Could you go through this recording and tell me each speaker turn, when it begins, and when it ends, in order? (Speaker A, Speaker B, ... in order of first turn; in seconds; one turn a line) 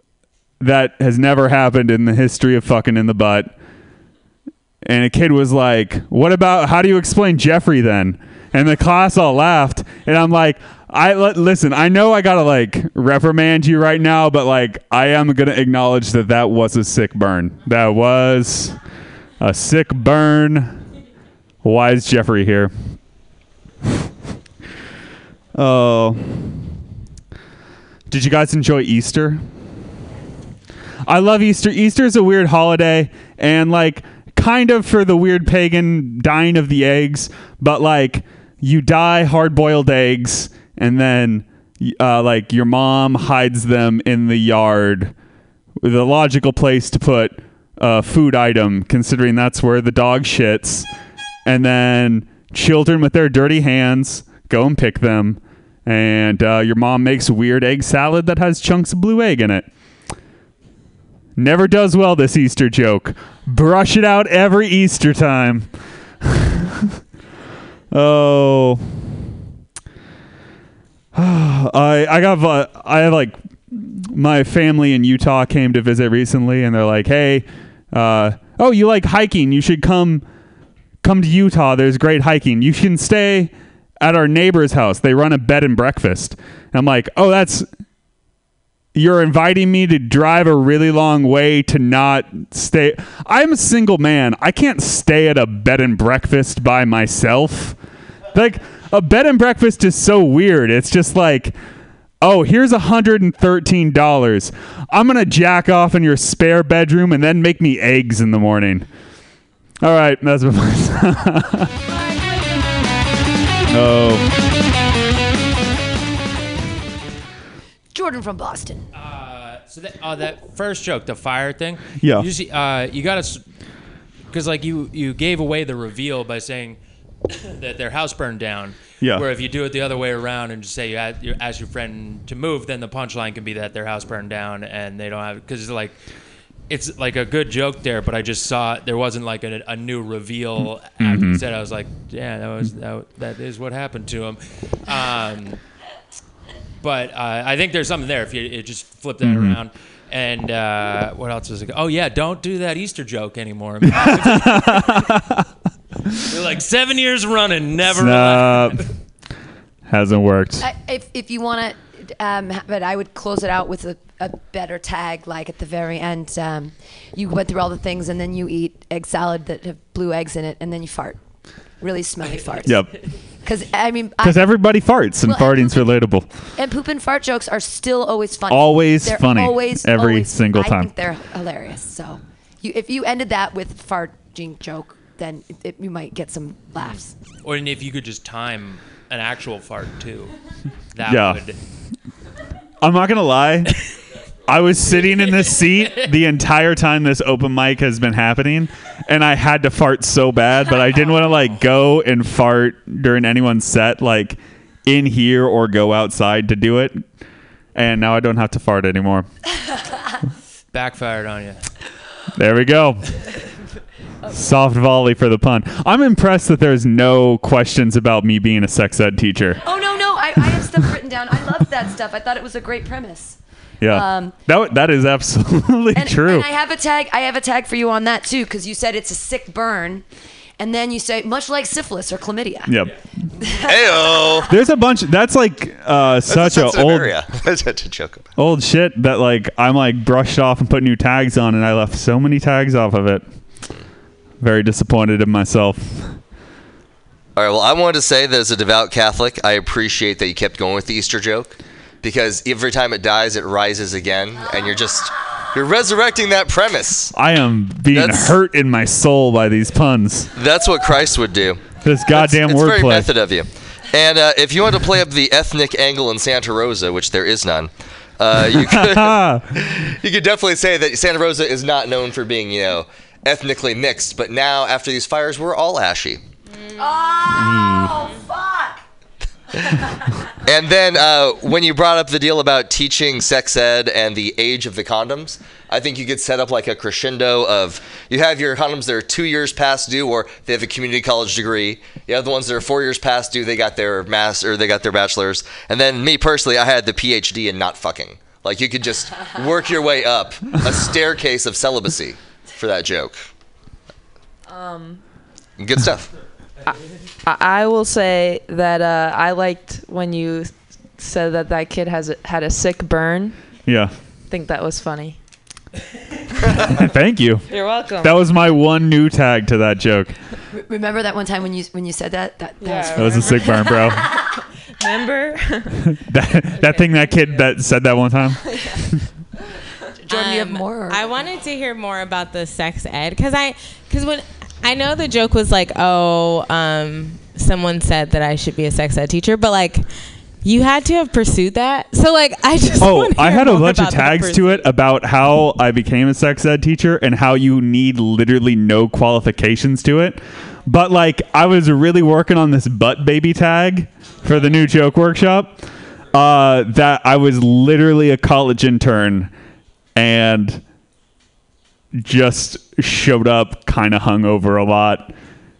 Speaker A: 0.6-3.5
Speaker A: 4.8-18.8
Speaker A: 19.4-20.8
Speaker A: 21.6-22.7
Speaker A: 25.5-26.7
Speaker A: 28.1-29.4
Speaker A: 31.1-45.1
Speaker A: 45.8-50.9
Speaker A: 51.5-59.7
Speaker A: 61.4-65.7
Speaker A: 66.3-66.7
Speaker A: 67.9-68.8
Speaker A: 71.1-80.2
Speaker A: 81.0-87.7
Speaker A: 88.9-97.8
Speaker A: 98.3-101.5
Speaker A: 102.2-108.9
Speaker A: 109.8-111.7
Speaker A: 113.7-114.3
Speaker B: 117.9-118.9
Speaker C: 118.9-123.5
Speaker A: 122.0-122.3
Speaker C: 124.3-126.8
Speaker C: 127.6-136.0
Speaker A: 129.0-129.3
Speaker C: 136.7-145.6
Speaker A: 141.0-141.4
Speaker C: 146.8-155.0
Speaker A: 149.2-149.6
Speaker A: 154.0-154.6
Speaker C: 156.3-158.8
Speaker A: 157.9-158.8
Speaker A: 159.9-160.7
Speaker B: 160.6-171.2
Speaker B: 171.8-172.8
Speaker A: 172.6-172.9
Speaker B: 173.4-174.5
Speaker A: 174.2-176.3
Speaker B: 175.2-175.9
Speaker B: 176.5-187.1
Speaker A: 178.5-180.9
Speaker C: 187.4-190.3
Speaker C: 190.9-191.6
Speaker A: 191.1-191.4
Speaker A: 192.8-193.7
Speaker A: 194.4-207.0
Speaker C: 194.9-196.2
Speaker C: 201.0-201.5
Speaker A: 207.7-209.3
Speaker C: 210.7-211.6
Speaker A: 212.3-213.1
Speaker A: 214.3-219.6
Speaker B: 219.6-224.4
Speaker A: 223.8-226.4
Speaker B: 225.9-230.0
Speaker B: 230.6-232.7
Speaker A: 232.7-232.9
Speaker D: 233.6-234.5
Speaker A: 234.5-237.1
Speaker D: 236.3-238.2
Speaker A: 238.4-243.2
Speaker A: 244.4-246.2
Speaker D: 247.3-257.1
Speaker A: 257.1-260.3
Speaker D: 257.9-258.3
Speaker D: 260.4-276.2
Speaker A: 261.8-263.1
Speaker A: 268.5-269.5
Speaker B: 276.8-278.7
Speaker D: 280.4-303.2
Speaker E: 304.5-305.0
Speaker D: 305.6-306.1
Speaker E: 307.2-313.4
Speaker A: 313.6-313.9
Speaker E: 314.3-315.2
Speaker A: 316.5-317.4
Speaker E: 317.5-318.4
Speaker A: 318.0-320.2
Speaker B: 320.5-324.0
Speaker E: 322.6-324.0
Speaker A: 322.9-324.1
Speaker E: 324.8-325.9
Speaker A: 325.9-329.0
Speaker E: 328.4-328.8
Speaker B: 330.1-331.1
Speaker F: 330.1-339.9
Speaker F: 340.4-344.7
Speaker A: 342.8-355.6
Speaker A: 356.1-359.3
Speaker A: 359.9-360.6
Speaker A: 361.9-365.1